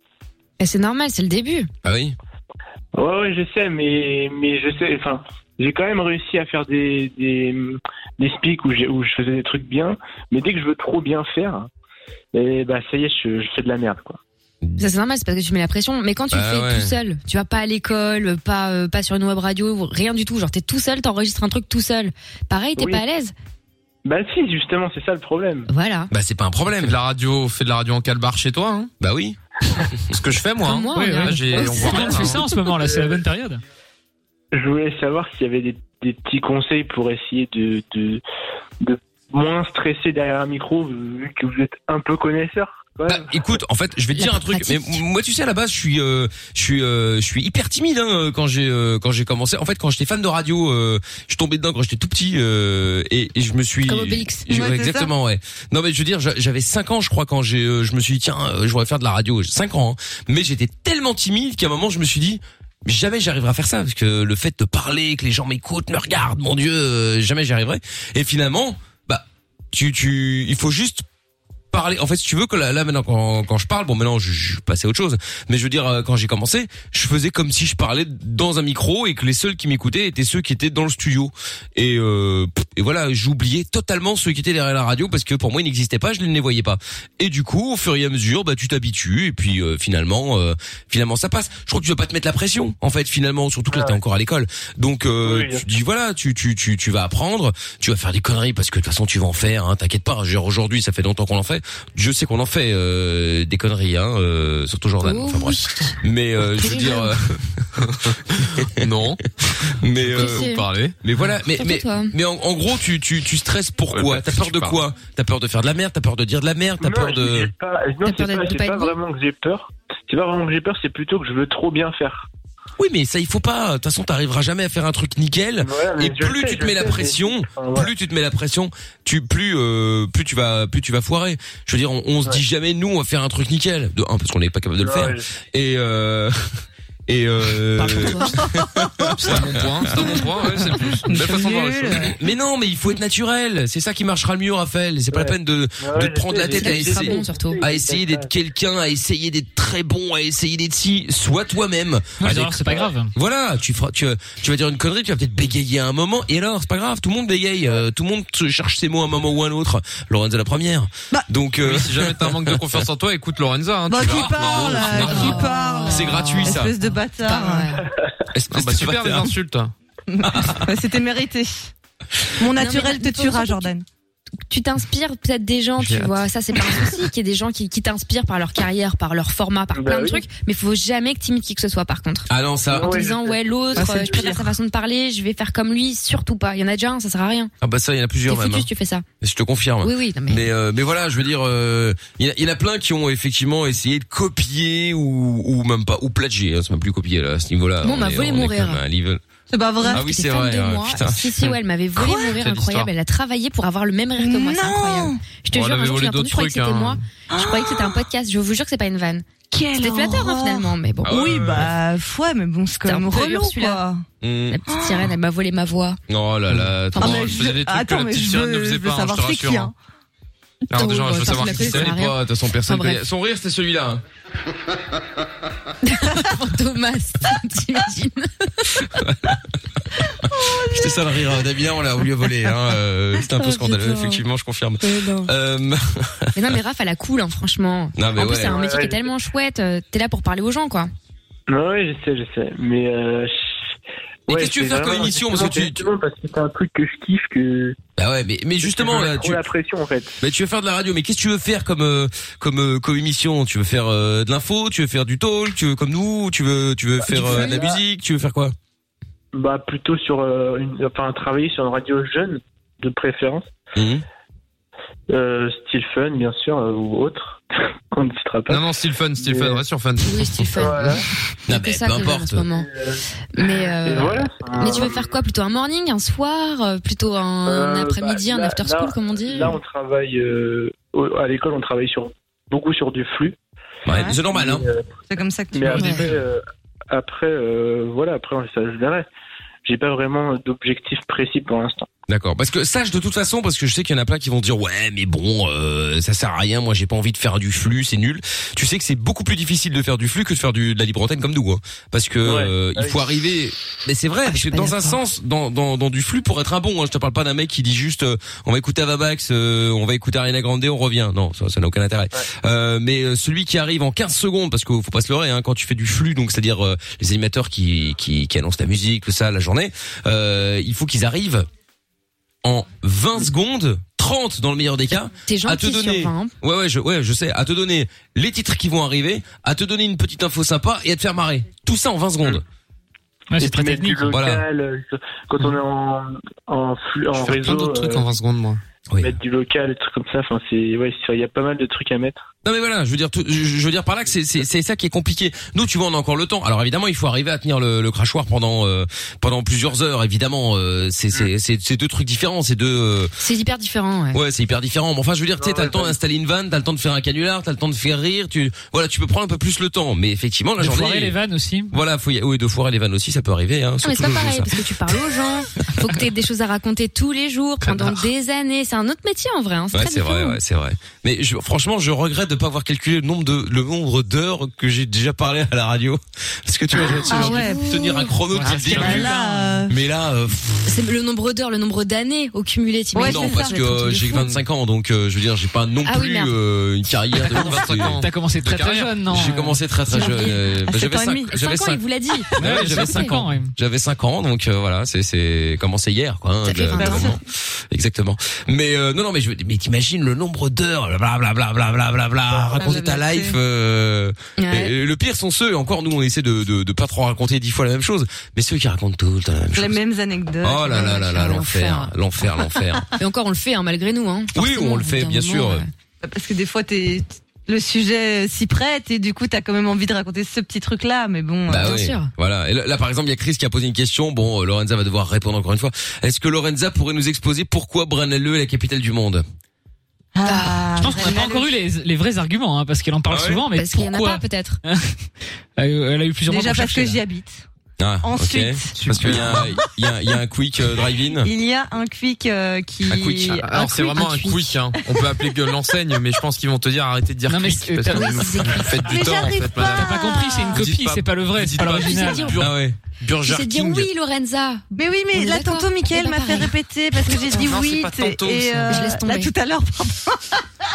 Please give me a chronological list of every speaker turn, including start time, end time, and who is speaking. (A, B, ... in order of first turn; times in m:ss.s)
0:00.6-0:01.7 A
0:01.8-0:02.1 B
0:02.9-0:11.7 C
0:12.3-0:14.2 C
0:14.8-0:23.3 A
0:16.3-0:16.9 B
0:22.8-0:23.0 C
0:24.0-0:25.7 C
0:25.7-0:26.1 A
0:26.1-0:27.0 B
0:26.8-0:28.9 D
0:29.0-0:29.4 B
0:30.1-0:32.4 D
0:30.6-0:32.6 A
0:31.2-0:33.6 E
0:34.5-0:38.2 C
0:38.8-0:43.6 C
0:43.1-1:11.0 B
0:44.1-0:45.0 A
0:53.9-0:54.7 A
0:54.5-0:55.1 F
1:11.7-1:47.6 B
1:33.7-1:34.0 C
1:35.2-1:35.6 C
1:45.0-1:46.0 A
1:46.5-1:47.1 A
1:48.4-1:48.7 B
1:48.7-1:49.2 D
1:49.7-1:50.5 B
1:50.0-1:51.0 D
1:50.1-1:50.7 A
1:51.0-1:57.5 B
1:51.6-1:52.1 A
1:53.9-1:54.8 D
1:56.8-2:02.3 C
1:58.0-1:58.9 A
2:02.8-2:20.0 B
2:05.6-2:07.9 C
2:14.8-2:15.2 C
2:17.8-2:18.3 A
2:17.9-2:19.1 F
2:19.2-2:22.1 D
2:21.0-2:22.1 F
2:22.0-2:42.8 B
2:25.1-2:28.3 C
2:26.5-2:27.6 A
2:32.2-2:33.1 E
2:41.6-2:45.4 D
2:43.9-2:47.8 F
2:44.0-2:46.7 B
2:44.9-2:46.6 A
2:47.2-2:47.8 A
2:48.3-2:49.3 B
2:48.5-2:49.7 D
2:50.1-2:51.7 F
2:50.2-2:50.6 B
2:52.4-2:53.8 F
2:52.5-2:53.7 A
2:54.5-3:07.5 A
2:55.8-2:56.1 D
2:59.7-3:00.2 C
3:02.3-3:03.0 B
3:02.7-3:03.4 C
3:03.7-3:04.5 F
3:07.6-3:08.7 B
3:08.3-3:09.0 A
3:09.2-3:19.2 B
3:09.8-3:10.5 A
3:17.8-3:18.8 A
3:19.5-3:20.0 F
3:19.8-3:31.2 A
3:19.9-3:21.5 B
3:22.4-3:22.9 D
3:24.2-3:25.2 F
3:25.5-3:27.0 D
3:27.3-3:28.0 F
3:29.5-3:34.0 F
3:31.0-3:31.7 B
3:32.8-3:33.8 A
3:34.2-3:34.6 B
3:34.5-3:36.0 A
3:34.7-3:35.1 F
3:36.1-3:37.5 B
3:36.6-3:39.7 D
3:36.9-3:39.7 F
3:40.7-3:42.0 D
3:40.7-3:43.0 A
3:41.4-3:44.0 B
3:45.8-3:48.6 A
3:48.9-3:49.4 B
3:50.3-3:51.2 F
3:50.7-3:56.3 B
3:53.4-3:54.1 A
3:54.9-3:55.3 A
3:56.3-4:00.9 A
3:58.0-3:58.6 B
3:58.3-3:59.1 C
4:01.5-4:03.4 C
4:04.3-4:05.8 B
4:04.3-4:07.8 C
4:08.0-4:09.4 B
4:08.6-4:10.1 C
4:10.2-4:18.5 B
4:17.0-4:17.8 C
4:17.2-4:17.6 A
4:19.3-4:23.5 C
4:23.7-4:24.0 B
4:25.1-4:28.7 C
4:28.5-4:31.0 D
4:29.2-4:29.6 C
4:30.0-4:32.7 A
4:30.6-4:31.0 C
4:31.5-4:32.5 B
4:32.6-4:33.0 C
4:33.3-4:39.6 A
4:33.7-4:35.1 C
4:37.4-4:43.4 C
4:43.8-4:44.6 B
4:43.9-4:44.3 F
4:44.3-4:44.9 C
4:45.1-4:46.2 F
4:45.5-4:49.1 C
4:45.8-4:46.1 A
4:49.6-4:51.9 C
4:52.1-5:21.5 B
5:02.2-5:03.0 C
5:04.2-5:05.0 A
5:22.4-5:32.4 B
5:25.2-5:26.3 A
5:33.3-5:34.2 E
5:33.4-5:38.1 C
5:34.1-5:34.4 B
5:37.2-5:38.6 D
5:38.9-5:39.1 B
5:39.0-5:42.2 C
5:42.4-5:53.1 B
5:53.2-5:54.2 A
5:54.1-6:01.1 B
5:55.4-5:55.9 C
6:00.6-6:01.7 E
6:01.7-6:04.5 B
6:03.8-6:10.4 A
6:09.7-6:19.1 B
6:16.9-6:17.6 F
6:17.0-6:18.1 A
6:18.4-6:19.6 E
6:18.4-6:19.7 F
6:18.5-6:18.8 D
6:19.7-6:20.8 B
6:20.6-6:24.3 A
6:22.9-6:24.1 F
6:23.0-6:28.0 B
6:25.8-6:26.3 A
6:27.2-6:29.0 D
6:28.0-6:29.6 E
6:29.1-6:31.8 B
6:29.9-6:30.4 A
6:29.9-6:31.4 F
6:31.3-6:33.1 A
6:32.4-6:49.8 B
6:32.4-6:33.5 E
6:36.4-6:37.1 A
6:36.7-6:37.2 F
6:42.3-6:43.4 F
6:44.4-6:44.7 A
6:49.5-6:51.1 F
6:50.4-6:52.8 B
6:50.7-6:51.9 A
6:53.0-6:55.7 A
6:54.3-6:55.6 B
6:56.0-7:01.7 F
7:01.5-7:09.2 B
7:01.5-7:02.1 A
7:10.1-7:11.5 F
7:10.2-7:10.8 A
7:10.8-7:14.9 E
7:13.1-7:13.4 B
7:13.5-7:14.6 A
7:15.6-7:17.0 E
7:16.3-7:17.4 F
7:17.8-7:21.3 B
7:18.0-7:19.1 F
7:18.8-7:19.2 E
7:18.9-7:19.4 D
7:21.2-7:25.3 F
7:22.9-7:23.3 B
7:23.4-7:29.9 D
7:27.3-7:28.6 E
7:27.9-7:28.8 A
7:28.8-7:30.6 F
7:29.6-7:32.4 E
7:30.5-7:33.9 D
7:31.7-7:32.4 A
7:32.4-7:32.8 B
7:33.2-7:36.5 A
7:34.7-7:40.4 F
7:37.3-7:38.8 D
7:38.7-7:39.3 A